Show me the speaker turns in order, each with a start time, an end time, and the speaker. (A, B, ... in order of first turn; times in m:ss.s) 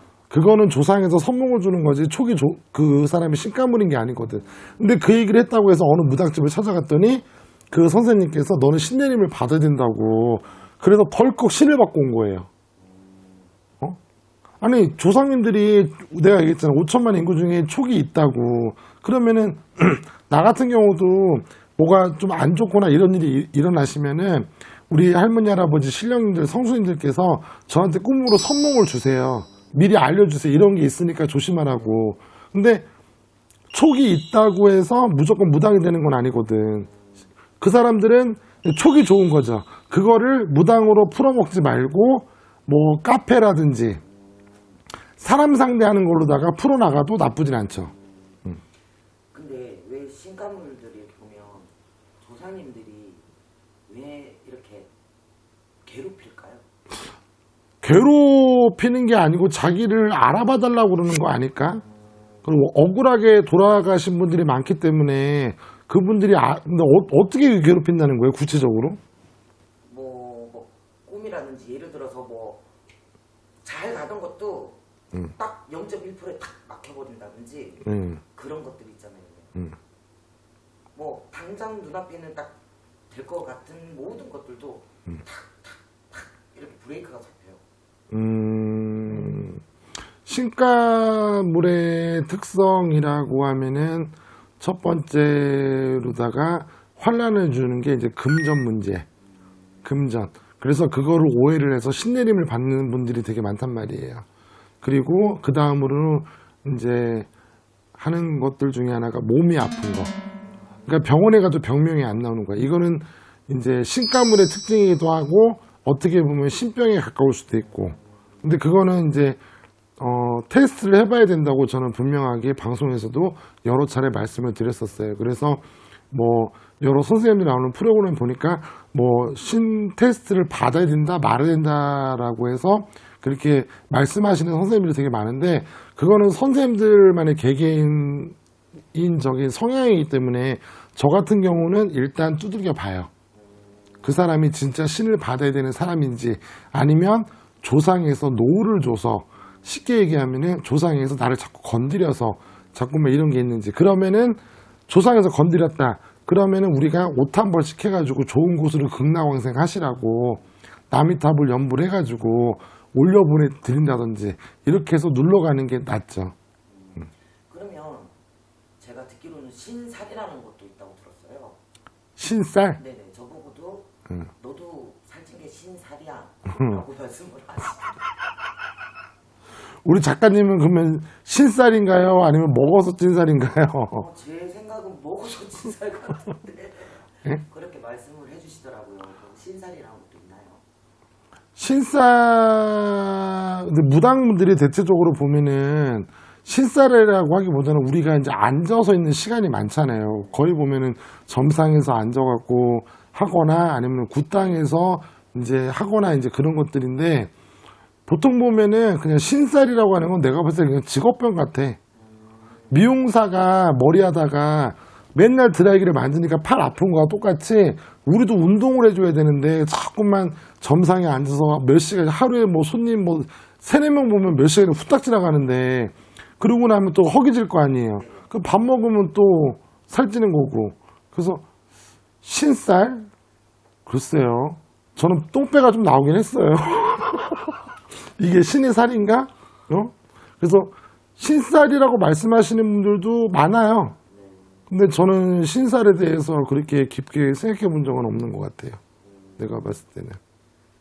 0:00.3-0:12.5 A
0:12.8-0:13.5 B
0:14.6-0:32.8 A
0:33.7-0:36.9 A
0:37.6-0:44.0 A
0:44.3-0:44.8 B
0:45.2-0:47.9 A
0:49.3-0:53.2 B
0:53.9-0:54.9 B
0:55.8-0:56.6 B
0:57.8-1:01.8 A
1:02.4-1:09.0 A
1:09.8-1:12.6 B
1:13.6-1:19.6 B
1:17.8-1:18.2 A
1:20.9-1:22.6 B
1:23.1-1:27.6 B
1:28.1-1:29.6 A
1:30.2-1:39.0 A
1:39.8-1:44.2 A
1:44.8-1:47.3 A
1:47.9-1:50.1 A
1:50.9-1:59.4 A
2:00.0-2:18.4 A
2:18.9-2:23.1 A
2:24.0-2:46.3 A
2:46.6-2:48.1 B
2:48.8-2:51.6 B
2:52.2-2:52.8 A
2:52.8-2:58.0 B
2:56.6-2:56.8 A
2:59.8-3:04.0 A
3:04.0-3:10.6 B
3:11.6-3:27.3 A
3:20.1-3:20.4 B
3:28.1-3:31.8 A
3:32.0-3:32.8 B
3:32.7-3:51.4 A
3:48.0-3:48.3 B
3:52.2-3:53.1 A
3:53.8-3:57.5 A
3:58.1-4:04.0 A
4:04.1-4:04.6 B
4:04.7-4:08.8 A
4:09.0-4:09.5 B
4:09.4-4:10.2 A